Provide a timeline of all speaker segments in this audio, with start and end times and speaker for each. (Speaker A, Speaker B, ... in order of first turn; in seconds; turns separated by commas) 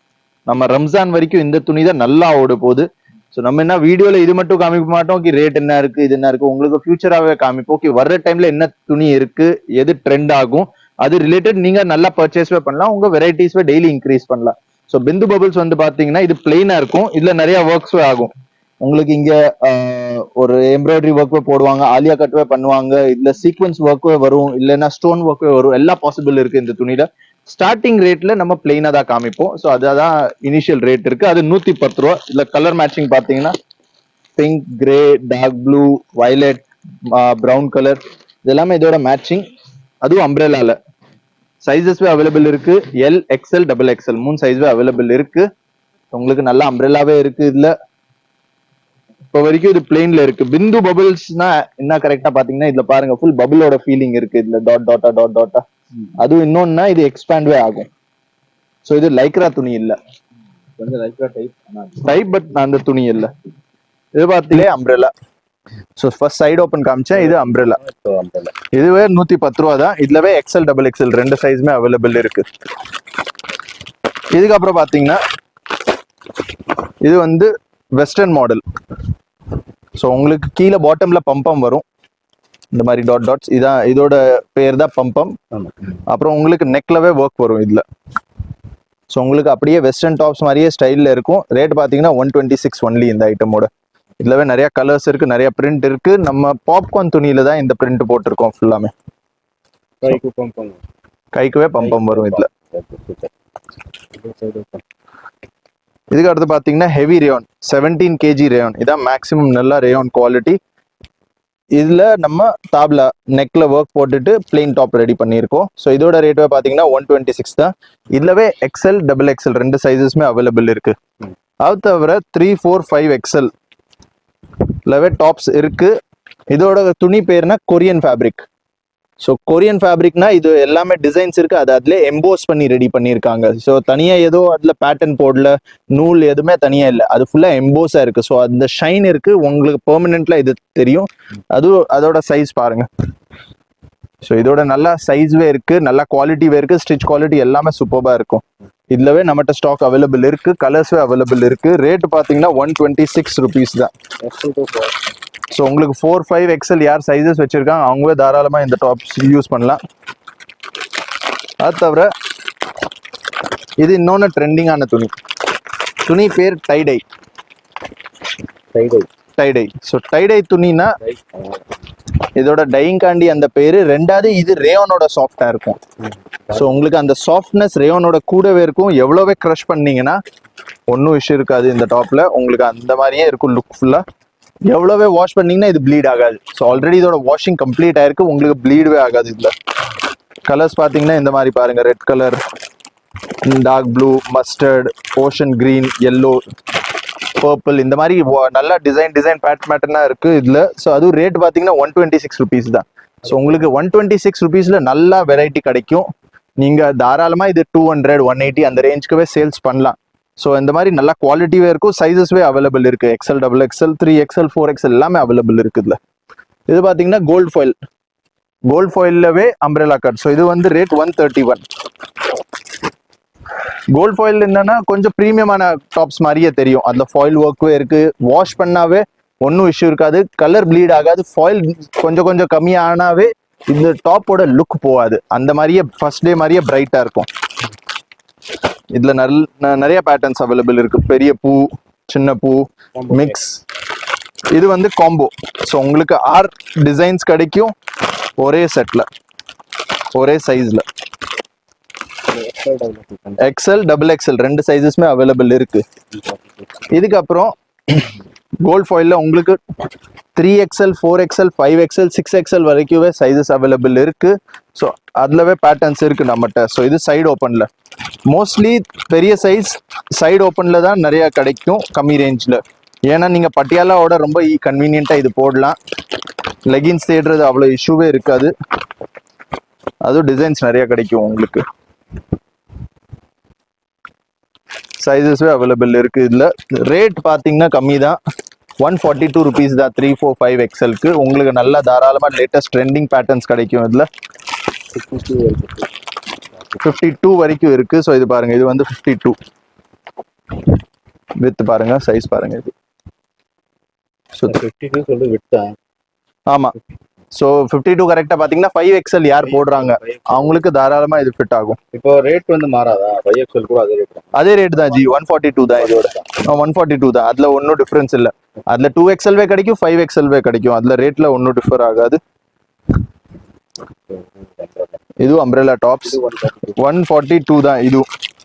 Speaker A: 0.5-18.3, Speaker A: 18.8-33.5, Speaker A: 34.4-39.5, Speaker A: 40.0-40.8, Speaker A: 41.6-45.5, Speaker A: 46.1-47.7, Speaker A: 49.3-55.6, Speaker A: 56.2-57.9, Speaker A: 58.9-60.0, Speaker B: 60.8-62.2, Speaker A: 62.0-63.3, Speaker A: 64.2-65.1, Speaker A: 66.0-67.8, Speaker B: 67.1-68.5, Speaker A: 68.7-72.5, Speaker A: 74.3-75.2, Speaker A: 77.0-78.6, Speaker A: 80.0-81.8, Speaker A: 82.7-85.4, Speaker A: 86.1-87.8, Speaker A: 89.1-93.7, Speaker A: 94.2-98.9, Speaker B: 100.0-100.8, Speaker A: 101.3-102.5, Speaker B: 101.8-103.3, Speaker B: 104.1-104.8, Speaker A: 106.1-110.6, Speaker A: 111.8-120.9, Speaker A: 121.6-123.5, Speaker A: 124.9-126.0, Speaker A: 126.5-128.4, Speaker A: 129.2-142.9, Speaker A: 144.2-153.9, Speaker B: 154.2-155.0, Speaker A: 155.5-159.8, Speaker A: 161.6-162.1, Speaker A: 163.8-165.1, Speaker A: 166.0-167.0, Speaker B: 168.7-169.1, Speaker A: 169.4-171.0, Speaker B: 171.0-171.6, Speaker A: 172.4-175.8, Speaker A: 176.5-180.2, Speaker A: 180.9-184.0, Speaker A: 184.7-189.5, Speaker A: 190.5-192.4, Speaker A: 193.4-196.4, Speaker A: 197.4-206.1, Speaker A: 206.6-216.0, Speaker A: 216.7-217.8, Speaker A: 218.7-221.6, Speaker A: 223.9-237.3, Speaker A: 238.9-243.6, Speaker B: 243.0-243.3, Speaker A: 244.5-247.7, Speaker A: 248.4-249.1, Speaker A: 250.1-250.8, Speaker B: 252.3-253.4, Speaker A: 253.4-255.8, Speaker B: 256.1-256.7, Speaker A: 256.9-258.1, Speaker A: 258.6-259.6, Speaker A: 260.4-267.7, Speaker A: 268.3-275.8, Speaker A: 276.7-278.5, Speaker A: 280.0-281.6, Speaker A: 285.0-288.2, Speaker A: 288.8-294.1, Speaker B: 294.9-295.9, Speaker A: 296.8-299.4, Speaker A: 301.4-302.7, Speaker B: 304.5-305.8, Speaker A: 306.5-306.8, Speaker A: 307.3-311.8, Speaker B: 309.4-310.6, Speaker B: 311.9-315.2, Speaker A: 314.4-322.2, Speaker B: 315.8-316.4, Speaker B: 324.1-325.0, Speaker A: 325.2-326.2, Speaker B: 326.1-326.8, Speaker A: 326.8-328.1